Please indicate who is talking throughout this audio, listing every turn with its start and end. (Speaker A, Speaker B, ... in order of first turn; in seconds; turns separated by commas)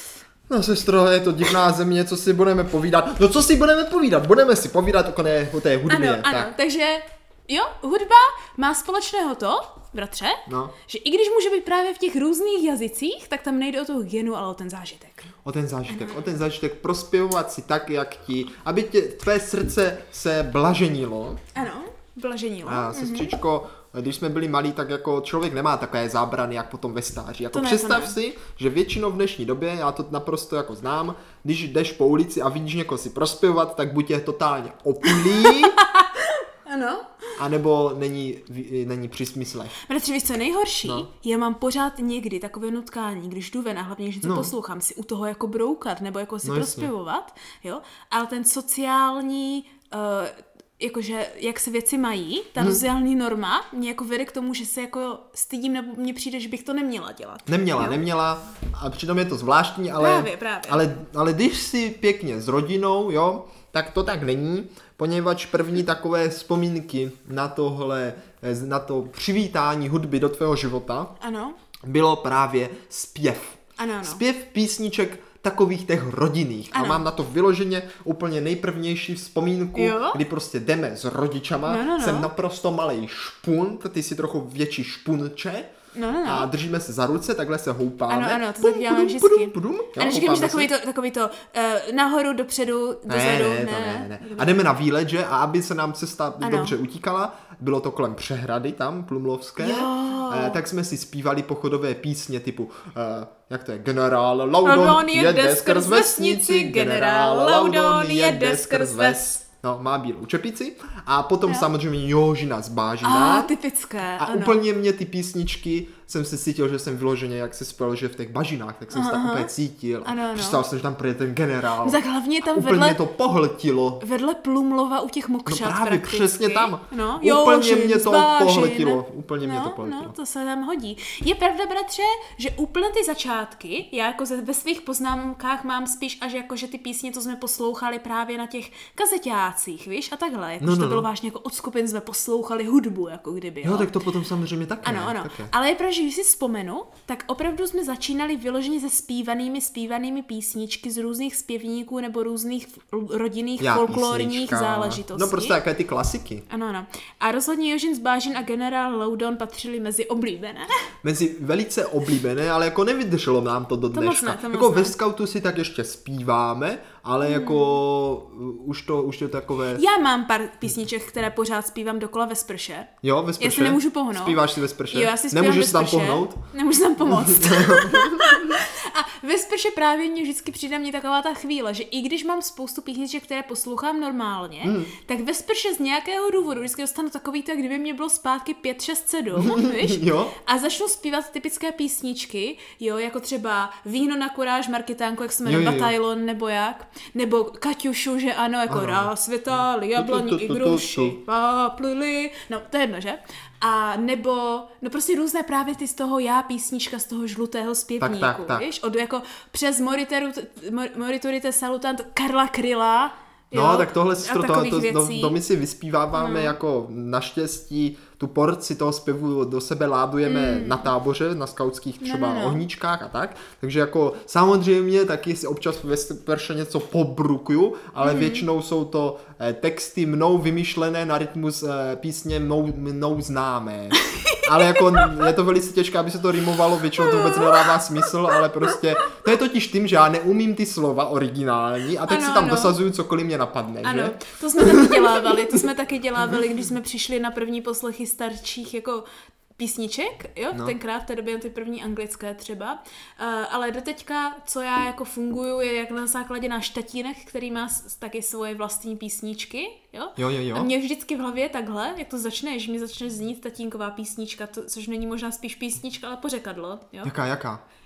Speaker A: 0.5-6.5, Speaker B: 5.9-15.3, Speaker A: 10.5-10.7, Speaker A: 15.4-21.4, Speaker B: 15.9-16.3, Speaker B: 21.5-23.3, Speaker A: 22.6-35.8, Speaker B: 27.5-28.1, Speaker B: 35.0-37.1, Speaker A: 37.4-39.8, Speaker B: 39.8-58.0, Speaker A: 44.2-44.5, Speaker A: 46.4-46.9, Speaker A: 57.5-71.1, Speaker B: 60.0-60.8, Speaker B: 71.2-71.6, Speaker A: 71.8-85.7, Speaker B: 73.8-74.2, Speaker B: 76.7-77.0, Speaker B: 79.7-80.2, Speaker B: 81.7-82.3, Speaker B: 85.9-86.5, Speaker A: 86.2-90.7, Speaker B: 88.1-94.7, Speaker A: 93.1-113.5, Speaker B: 96.4-96.8, Speaker B: 99.6-100.6, Speaker B: 104.6-109.3, Speaker B: 113.0-114.6, Speaker A: 114.2-124.0, Speaker B: 118.9-119.5, Speaker B: 120.0-120.6, Speaker B: 121.8-123.0, Speaker B: 124.0-143.9, Speaker A: 125.5-130.1, Speaker A: 140.6-141.1, Speaker A: 143.6-145.5, Speaker B: 144.8-155.6, Speaker A: 153.6-156.4, Speaker B: 156.5-160.7, Speaker A: 161.0-169.8, Speaker B: 163.9-164.9, Speaker B: 167.2-167.8, Speaker B: 169.7-215.4, Speaker A: 173.0-176.4, Speaker A: 177.0-178.6, Speaker A: 184.6-184.9, Speaker A: 189.3-190.3, Speaker A: 195.4-195.9, Speaker A: 198.7-199.1, Speaker A: 199.9-201.2, Speaker A: 208.0-208.7, Speaker A: 213.5-245.7, Speaker B: 216.1-216.6, Speaker B: 220.2-220.9, Speaker B: 222.0-222.6, Speaker B: 228.0-228.4, Speaker B: 234.1-235.3, Speaker B: 237.0-238.8, Speaker B: 242.0-242.8, Speaker B: 243.8-249.1, Speaker B: 249.6-267.1, Speaker A: 260.2-260.7, Speaker A: 267.0-267.6